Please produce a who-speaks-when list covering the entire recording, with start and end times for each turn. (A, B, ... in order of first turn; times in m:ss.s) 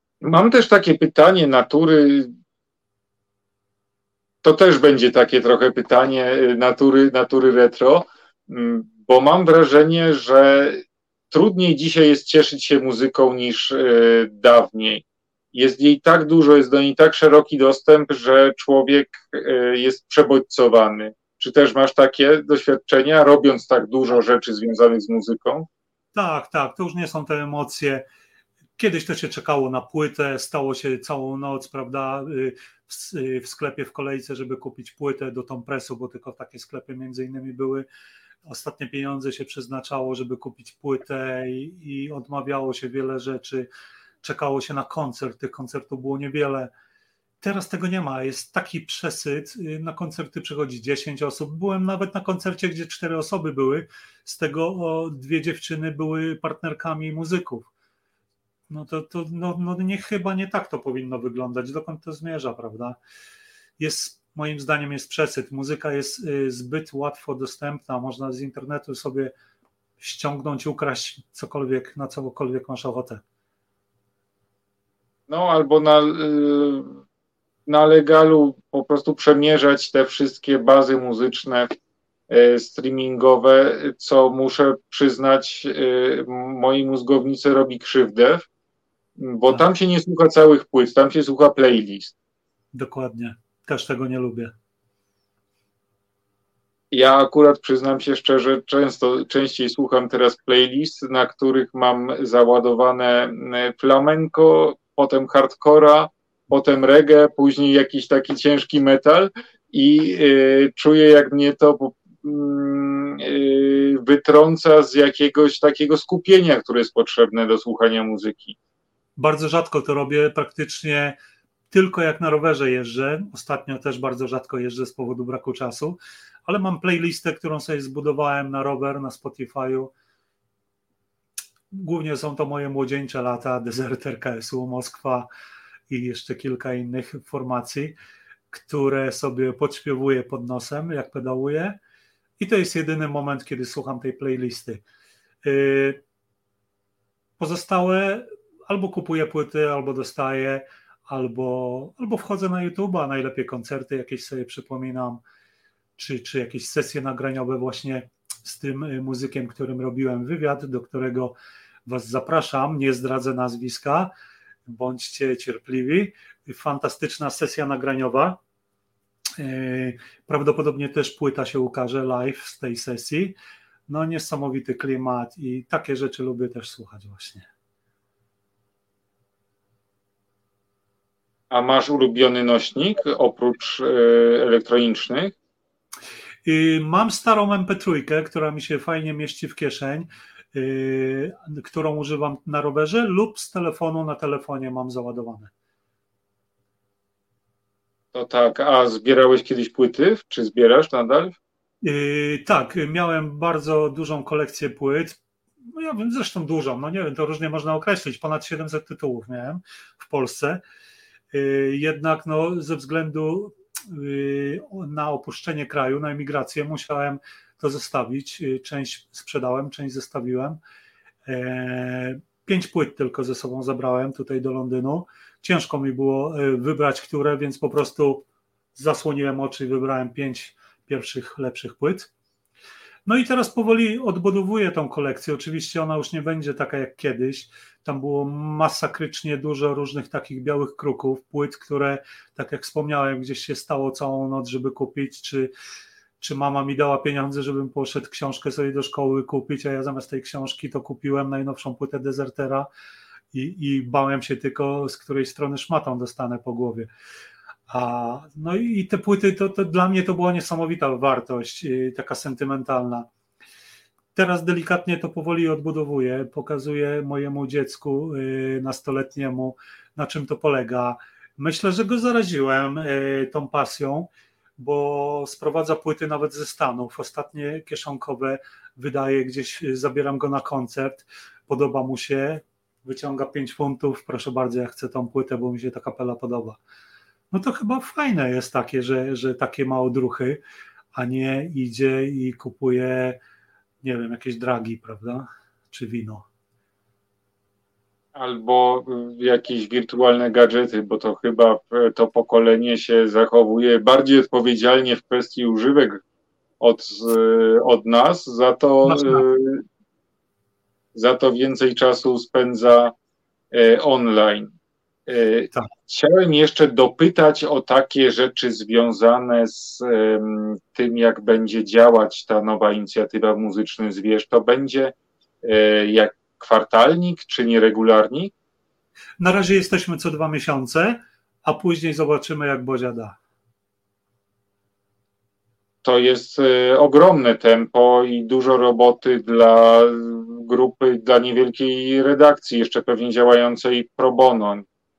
0:00.2-0:02.3 A
0:04.4-0:25.7 A
0:26.1-0:28.1 B
0:28.8-0:37.9 B
0:38.4-0:43.7 B
0:44.2-0:46.7 B
0:47.4-0:57.7 B
0:58.7-1:03.0 B
1:03.8-1:09.3 B
1:10.0-1:13.2 B
1:15.3-1:17.0 A
1:17.7-1:21.7 A
1:22.3-1:28.5 A
1:29.2-1:32.1 A
1:32.7-1:34.5 B
1:36.9-1:58.6 A
1:59.2-2:01.2 B
2:01.7-2:09.9 B
2:11.7-2:15.3 B
2:15.9-2:17.9 B
2:18.5-2:21.8 B
2:22.4-2:24.8 B
2:25.4-2:26.0 B
2:27.4-2:35.2 B
2:36.0-2:41.4 B
2:41.9-2:44.1 B
2:44.7-2:48.4 B
2:49.4-2:53.4 B
2:53.9-2:57.5 B
3:01.5-3:05.3 A
3:06.4-3:15.5 B
3:18.1-3:21.4 A
3:21.8-3:30.6 B
3:31.3-3:40.6 B
3:41.3-3:52.1 B
3:53.1-4:05.5 B
4:06.2-4:12.7 B
4:13.3-4:16.9 B
4:17.7-4:23.1 B
4:24.2-4:46.6 B
4:47.3-4:50.4 B
4:50.9-4:53.2 B
4:53.8-4:56.3 B
4:58.2-5:06.0 A
5:06.6-5:09.6 A
5:08.8-5:09.2 B
5:11.0-5:13.0 A
5:13.5-5:14.5 A
5:15.1-5:28.3 A
5:29.2-5:33.2 B
5:35.8-5:44.7 A